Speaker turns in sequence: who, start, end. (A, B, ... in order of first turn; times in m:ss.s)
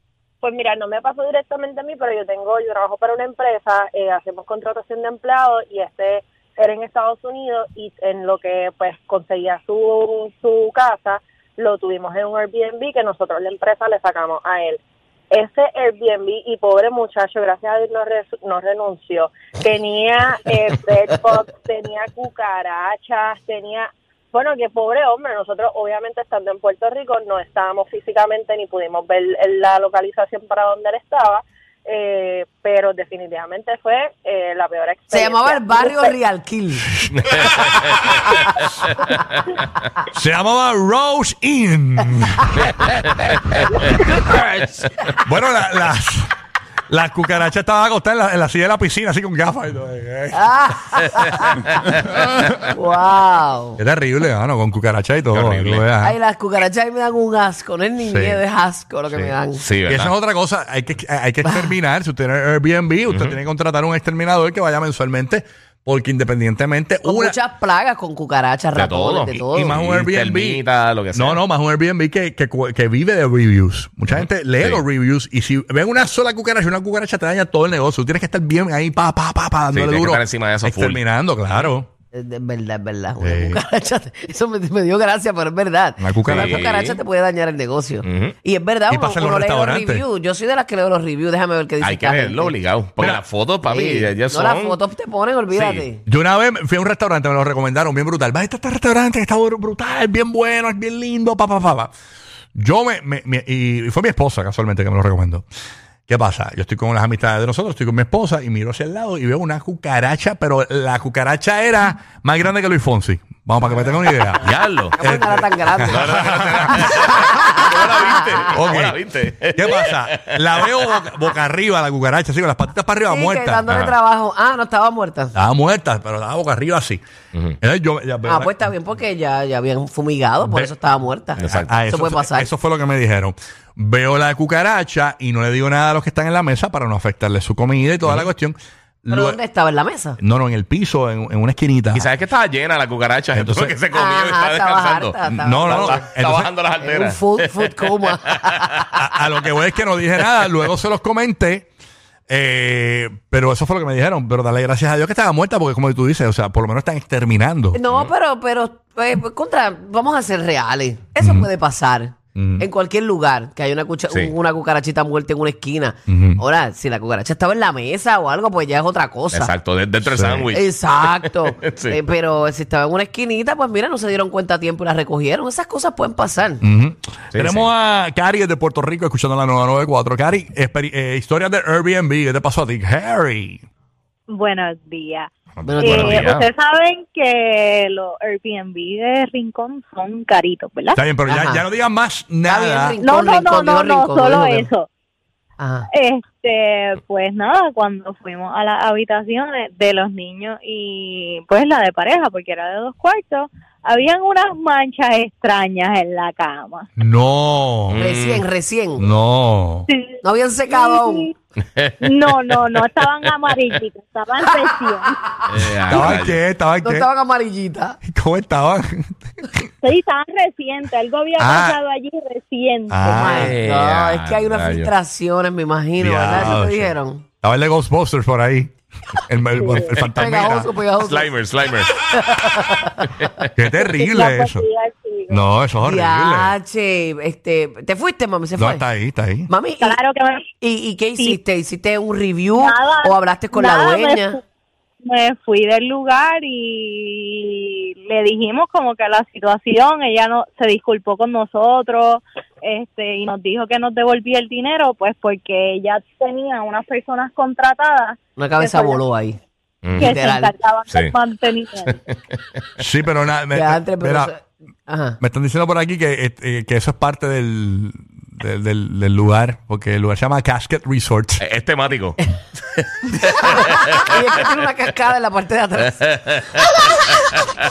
0:00.4-0:36.1 A
0:35.1-0:36.9 B
0:37.0-0:38.2 C
0:40.1-0:42.6 C
0:43.8-0:44.9 B
0:45.2-0:46.3 C
0:46.9-0:50.5 C
0:50.3-0:51.7 B
0:51.1-0:51.4 C
0:52.7-0:53.8 B
0:53.8-0:56.2 C
0:55.3-0:55.8 D
0:56.0-0:59.6 B
0:58.0-0:58.4 C
0:59.1-1:00.1 D
0:59.8-1:07.4 C
1:01.4-1:01.7 B
1:03.1-1:03.4 D
1:07.0-1:09.8 B
1:08.7-1:11.4 D
1:09.5-1:21.9 C
1:14.1-1:14.8 D
1:19.7-1:21.7 D
1:22.1-1:32.6 B
1:23.2-1:23.6 C
1:26.0-1:26.6 C
1:26.2-1:27.0 D
1:28.0-1:28.3 D
1:28.9-1:30.0 C
1:31.8-1:34.8 D
1:33.0-1:33.2 C
1:33.6-1:36.0 B
1:35.5-1:35.8 D
1:36.0-1:41.9 C
1:42.6-1:45.4 C
1:46.1-1:57.1 C
1:54.4-1:55.0 D
1:54.9-1:58.3 B
1:55.9-2:00.9 D
1:58.5-2:03.6 C
2:03.1-2:05.3 B
2:03.7-2:03.9 D
2:05.4-2:07.0 C
2:07.6-2:08.6 C
2:08.2-2:12.5 B
2:11.4-2:11.7 D
2:11.4-2:19.4 C
2:19.1-2:20.2 B
2:20.2-2:22.1 C
2:21.9-2:28.6 D
2:23.3-2:23.8 C
2:23.9-2:26.1 B
2:25.2-2:26.5 C
2:26.8-2:29.0 B
2:29.0-2:31.7 C
2:32.3-2:37.8 C
2:37.7-2:49.5 B
2:41.2-2:41.5 C
2:42.4-2:42.7 C
2:46.1-2:46.4 C
2:49.3-2:52.0 D
2:50.0-2:50.5 C
2:50.5-2:56.6 B
2:56.6-3:03.6 C
2:57.3-2:57.7 D
3:04.3-3:11.0 E
3:05.6-3:06.4 D
3:05.6-3:06.2 B
3:11.0-3:13.0 C
3:11.3-3:11.6 B
3:12.4-3:14.7 B
3:13.0-3:14.9 E
3:15.6-3:15.8 B
3:15.9-3:26.9 E
3:27.0-3:28.0 C
3:27.9-3:28.4 D
3:28.0-3:29.1 B
3:29.0-3:29.9 C
3:29.9-3:31.3 E
3:30.2-3:31.3 B
3:31.8-3:32.6 D
3:32.0-3:35.3 E
3:35.5-3:36.4 D
3:35.8-3:37.1 C
3:36.8-3:38.0 B
3:38.1-3:39.6 C
3:39.8-3:43.4 E
3:41.4-3:41.8 C
3:42.9-3:43.3 C
3:43.1-3:47.2 B
3:43.2-3:44.9 D
3:46.0-3:48.7 C
3:49.3-3:50.7 C
3:49.8-3:53.2 B
3:51.0-3:51.9 D
3:53.6-3:54.6 C
3:54.1-3:55.0 E
3:55.3-3:56.5 C
3:55.8-3:58.8 B
3:58.6-3:59.5 C
3:59.5-4:00.0 B
3:59.8-4:00.5 E
4:00.6-4:04.4 B
4:01.2-4:01.4 E
4:02.6-4:04.4 E
4:05.0-4:19.0 E
4:18.4-4:19.4 B
4:19.8-4:20.1 D
4:20.0-4:20.5 B
4:20.0-4:21.9 E
4:22.8-4:24.3 C
4:23.5-4:25.2 B
4:25.2-4:31.4 C
4:31.4-4:32.2 D
4:33.2-4:36.7 B